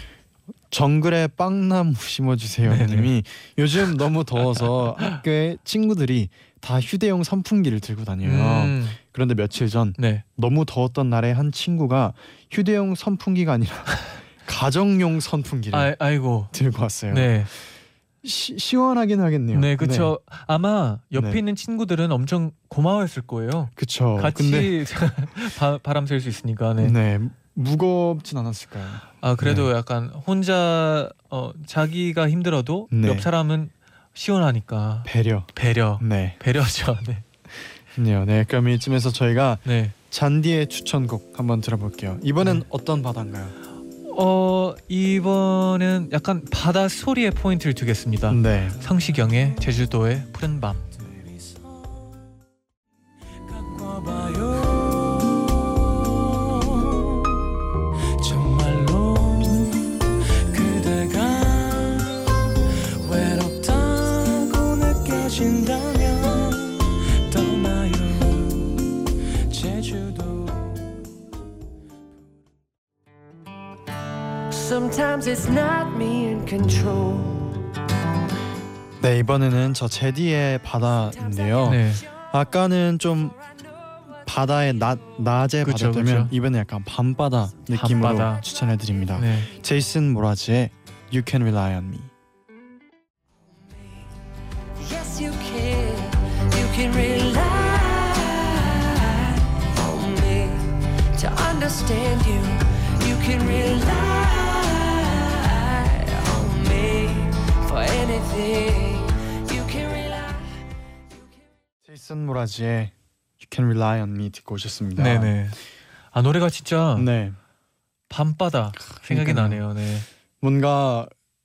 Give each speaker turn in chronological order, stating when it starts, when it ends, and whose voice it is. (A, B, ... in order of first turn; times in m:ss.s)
0:00.7-0:15.9 A
0:02.6-0:03.1 B
0:04.6-0:05.2 B
0:08.2-0:09.0 B
0:10.0-0:10.2 B
0:15.7-0:16.5 B
0:16.5-0:17.5 A
0:17.1-0:17.5 B
0:18.2-0:20.1 A
0:19.5-0:27.0 B
0:21.1-0:21.4 A
0:23.8-0:24.8 A
0:26.8-0:29.7 A
0:29.2-0:37.2 B
0:32.9-0:33.3 A
0:35.0-0:36.4 A
0:37.9-0:43.5 A
0:39.6-0:39.9 B
0:44.0-0:50.9 B
0:48.3-0:48.8 A
0:53.6-0:54.7 C
0:53.7-0:57.4 D
0:58.2-1:02.5 D
0:58.3-0:59.5 C
1:00.5-1:02.3 C
1:03.0-1:08.8 C
1:03.1-1:08.5 D
1:09.5-1:10.7 C
1:14.5-1:17.7 D
1:19.0-1:23.4 A
1:21.6-1:22.0 B
1:24.2-1:32.1 A
1:25.6-1:26.3 B
1:27.7-1:28.4 B
1:29.2-1:29.5 B
1:33.6-1:34.0 D
1:34.8-1:50.6 D
1:51.8-1:55.4 A
1:55.0-1:55.6 B
1:56.1-1:57.1 B
1:57.0-1:57.4 A
1:58.1-2:00.0 B
1:58.9-1:59.6 A
2:00.4-2:01.1 A